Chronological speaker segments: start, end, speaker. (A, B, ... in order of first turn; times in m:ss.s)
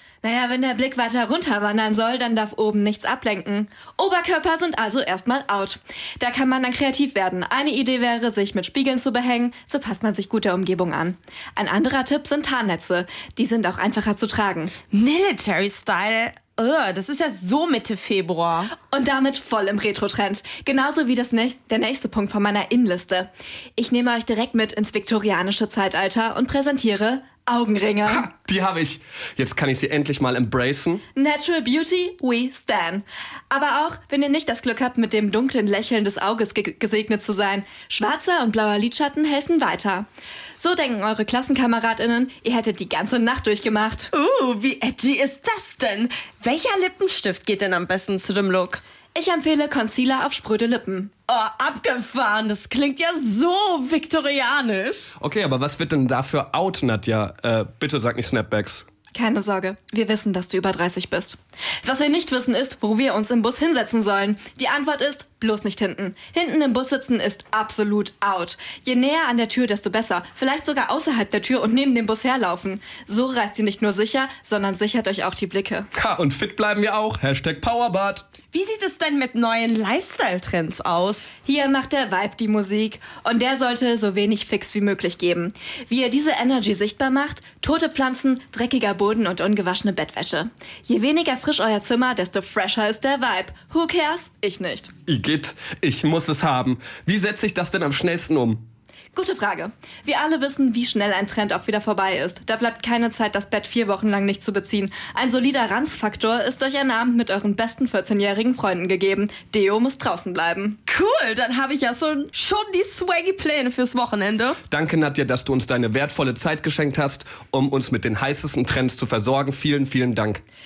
0:00.2-0:14.7 A
0:14.9-0:18.7 B
0:18.8-0:28.3 A
0:28.0-0:31.0 C
0:31.1-0:40.1 A
0:40.6-0:44.1 A
0:44.1-0:48.8 B
0:49.1-0:51.1 A
0:51.3-0:55.1 B
0:55.2-0:58.8 C
0:59.1-1:15.9 A
1:15.9-1:18.2 C
1:18.5-1:21.3 B
1:21.4-1:34.9 A
1:35.1-1:38.6 C
1:39.1-1:50.8 A
1:50.9-1:54.6 B
1:54.7-2:00.4 C